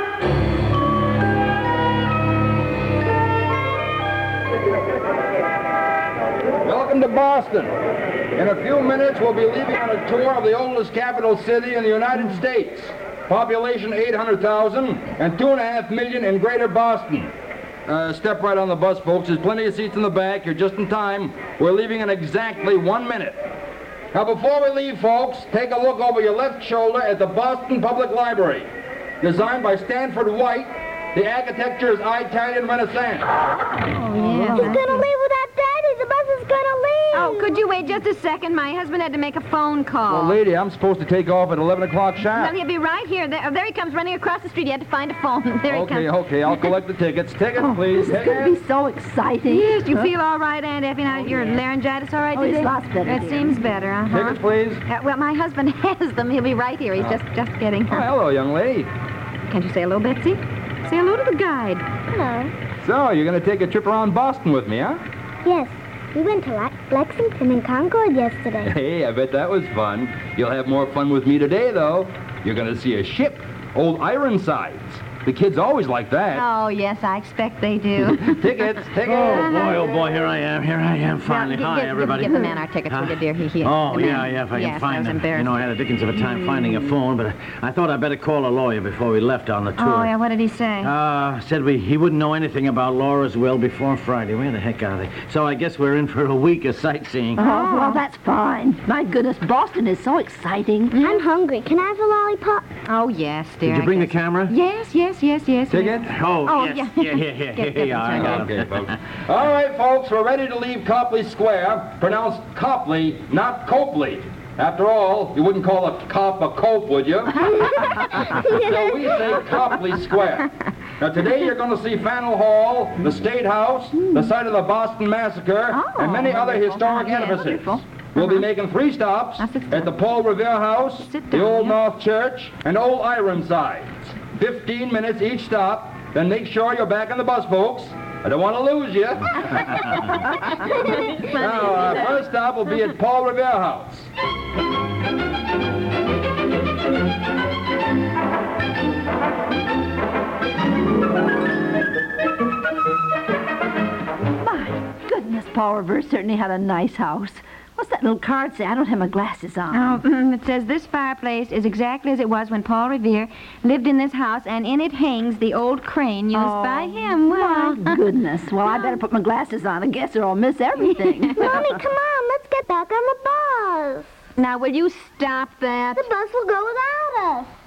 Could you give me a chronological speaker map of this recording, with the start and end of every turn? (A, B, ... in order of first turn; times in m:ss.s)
0:06.6-0:07.7 A
0:08.4-0:17.3 A
0:17.9-0:23.4 A
0:24.1-0:28.7 A
0:29.2-0:33.3 A
0:33.9-0:35.1 B
0:34.5-0:34.7 A
0:34.5-0:37.6 C
0:37.1-0:40.4 B
0:40.1-0:42.5 A
0:42.3-0:46.7 B
0:45.7-0:48.6 A
0:47.6-0:50.1 D
0:49.5-0:58.1 B
0:52.3-0:53.5 D
0:54.1-0:54.8 A
0:57.9-0:58.9 A
0:59.5-1:01.8 B
1:02.1-1:02.5 C
1:02.8-1:05.0 A
1:05.4-1:08.8 C
1:08.6-1:16.4 A
1:16.3-1:20.0 B
1:18.2-1:19.6 A
1:19.0-1:30.1 E
1:21.2-1:26.8 B
1:29.8-1:30.9 B
1:30.8-1:37.4 E
1:37.3-1:38.0 B
1:37.4-1:41.0 D
1:40.9-1:41.2 B
1:41.0-1:42.7 C
1:42.9-1:48.5 B
1:43.6-1:44.5 E
1:45.7-1:46.1 A
1:46.0-1:48.9 E
1:48.1-2:00.5 A
1:57.5-1:58.4 B
1:58.1-1:59.6 C
2:01.0-2:20.1 A
2:05.7-2:08.5 B
2:09.4-2:09.9 B
2:10.9-2:11.8 B
2:20.8-2:22.2 B
2:21.2-2:24.1 A
2:34.4-2:40.0 D
2:39.7-2:48.0 B
2:46.3-2:51.4 D
2:48.6-2:49.0 B
2:51.0-2:51.6 B
2:51.2-2:54.1 C
2:54.4-2:56.1 B
2:55.9-2:57.5 C